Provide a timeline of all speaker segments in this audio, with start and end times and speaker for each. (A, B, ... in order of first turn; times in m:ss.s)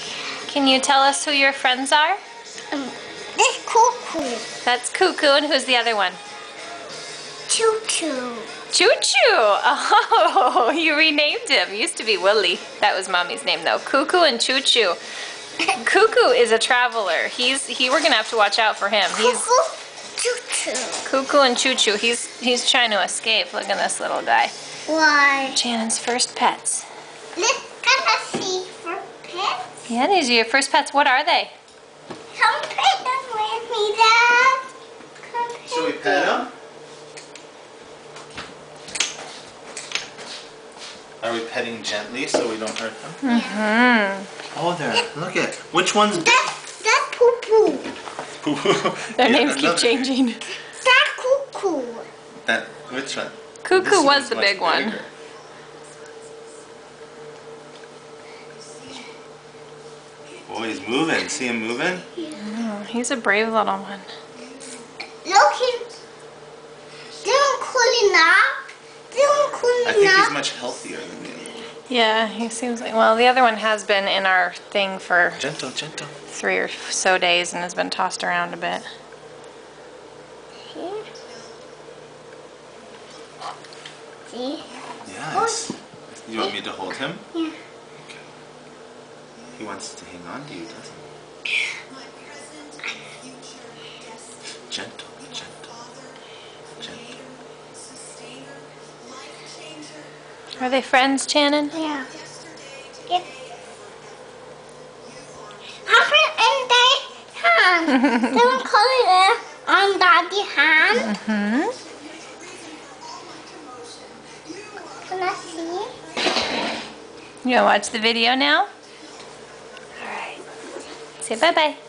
0:00.4-0:02.2 A
0:02.7-0:04.5 B
0:04.6-0:06.2 A
0:07.5-0:08.5 B
0:08.7-0:15.0 A
0:15.7-0:19.4 A
0:19.1-0:21.1 B
0:21.0-0:24.5 A
0:24.9-0:25.6 B
0:25.5-0:26.8 A
0:27.4-0:29.7 B
0:29.9-0:31.5 A
0:32.3-0:34.6 B
0:35.2-0:36.5 B
0:35.6-0:36.5 C
0:41.2-0:43.2 C
0:43.2-0:44.3 A
0:43.2-0:43.6 B
0:44.5-0:46.5 C
0:46.1-0:47.9 B
0:48.4-0:50.1 C
0:49.2-0:50.5 A
0:50.8-0:52.1 B
0:52.4-0:55.1 C
0:53.6-0:55.0 A
1:00.4-1:02.0 C
1:02.4-1:04.1 A
1:05.2-1:05.8 B
1:07.2-1:10.4 B
1:09.8-1:11.7 C
1:11.9-1:15.4 A
1:15.4-1:16.1 C
1:16.3-1:18.9 A
1:20.7-1:21.1 B
1:24.3-1:25.7 B
1:25.0-1:25.7 C
1:26.2-1:27.2 C
1:29.5-1:31.0 C
1:34.7-1:35.7 C
1:36.8-1:37.1 C
1:40.6-1:41.7 A
1:41.7-1:42.1 B
1:45.8-1:51.1 B
1:50.9-1:51.8 A
1:55.0-1:55.9 B
1:57.4-1:58.7 A
2:00.0-2:00.4 A
2:01.2-2:01.8 A